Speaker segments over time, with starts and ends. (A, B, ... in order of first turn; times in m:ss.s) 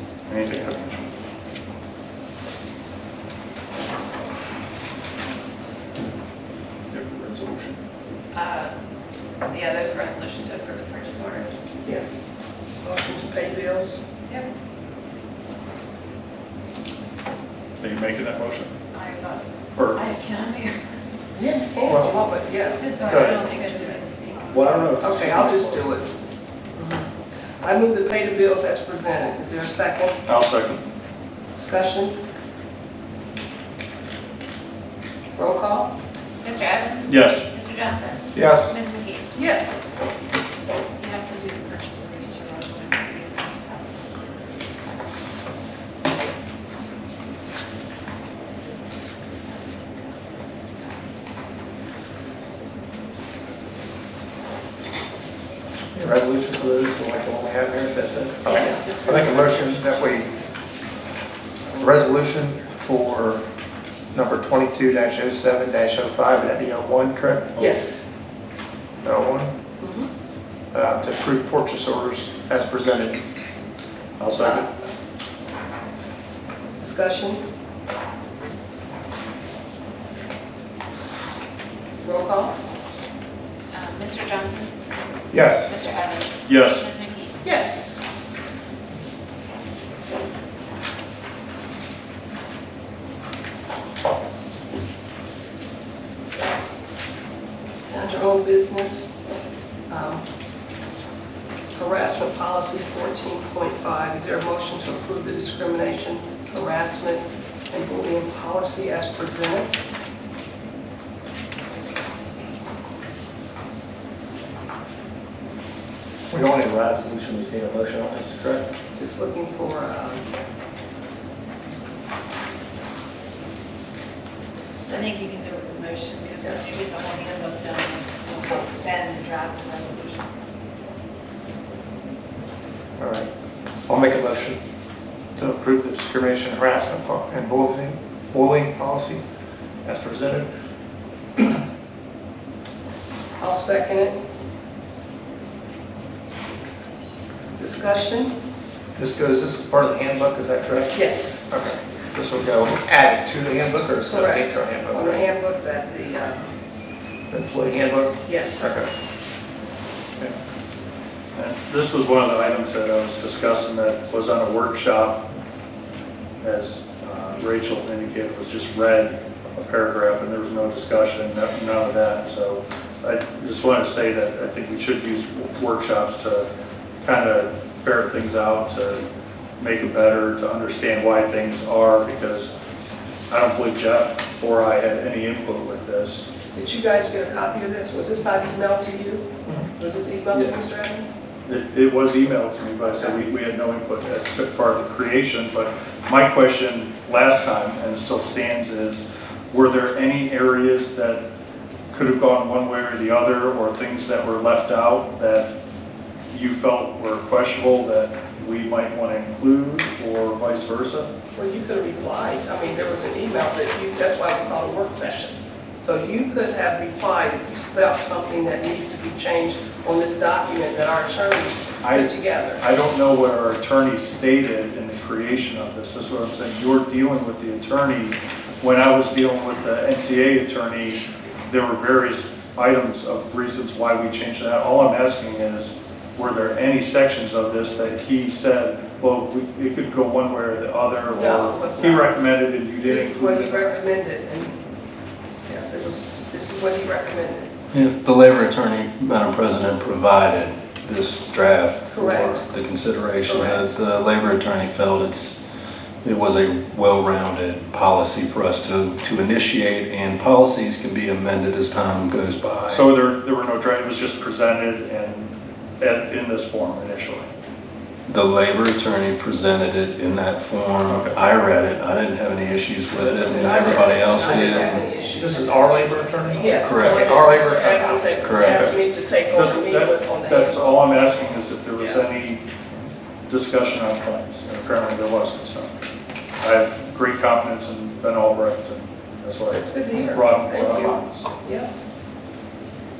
0:00.3-0:01.1 A
0:06.9-0:07.8 A
0:08.3-0:08.7 B
0:09.4-0:11.6 B
0:11.8-0:12.2 C
0:12.8-0:14.0 C
0:17.8-0:18.7 A
0:18.9-0:20.8 B
0:19.8-0:20.0 A
0:21.4-0:24.0 C
0:21.9-0:22.2 D
0:22.8-0:24.7 B
0:23.1-0:23.4 D
0:24.5-0:25.8 D
0:25.0-0:26.1 C
0:26.8-0:27.1 C
0:27.6-0:30.2 C
0:30.2-0:30.8 A
0:31.6-0:32.2 C
0:35.4-0:35.9 C
0:36.4-0:39.3 B
0:37.1-0:37.4 A
0:38.3-0:38.8 D
0:39.3-0:39.9 C
0:41.0-0:44.6 B
0:50.6-0:51.0 B
0:55.9-1:00.3 D
0:58.5-1:00.3 B
0:58.5-0:59.0 C
1:01.7-1:03.4 D
1:04.1-1:07.7 D
1:07.6-1:08.0 C
1:09.0-1:09.6 D
1:09.8-1:10.1 C
1:10.7-1:13.2 D
1:14.2-1:14.7 A
1:14.4-1:14.6 C
1:16.8-1:17.4 C
1:22.0-1:22.6 C
1:23.7-1:24.7 B
1:25.3-1:25.8 D
1:25.7-1:27.4 B
1:26.4-1:26.8 A
1:27.4-1:28.0 C
1:37.9-1:39.1 C
1:39.9-1:40.2 C
1:41.7-1:49.7 C
1:56.3-1:58.7 D
1:58.9-2:00.2 C
2:04.7-2:05.0 C
2:04.9-2:10.2 B
2:13.0-2:13.3 D
2:13.9-2:14.6 D
2:15.4-2:19.2 D
2:19.8-2:20.5 D
2:23.4-2:24.2 C
2:27.6-2:28.3 C
2:29.0-2:35.3 D
2:30.9-2:31.5 C
2:34.1-2:36.5 C
2:37.3-2:38.9 D
2:38.2-2:38.8 C
2:41.3-2:45.2 A
2:46.4-2:56.5 A
2:57.0-2:59.0 A
2:59.6-3:02.5 A
3:03.3-3:06.3 A
3:06.5-3:11.1 C
3:11.4-3:21.2 A
3:12.8-3:13.2 C
3:21.9-3:25.5 A
3:26.3-3:31.1 A
3:31.3-3:42.6 C
3:41.8-4:03.8 A
4:01.1-4:02.2 C
4:02.7-4:04.6 C
4:05.4-4:07.5 C
4:07.7-4:15.4 E
4:11.9-4:12.4 C
4:13.2-4:13.7 C
4:16.0-4:22.9 E
4:22.7-4:27.3 A
4:28.1-4:34.8 E
4:30.8-4:31.2 A
4:33.0-4:40.9 C
4:35.1-4:38.7 D
4:36.6-4:37.5 E
4:38.2-4:38.7 E
4:38.4-4:38.8 A
4:39.3-4:42.5 A
4:41.8-4:42.0 C
4:43.3-4:45.7 A
4:46.4-4:51.4 A
4:49.5-4:51.7 C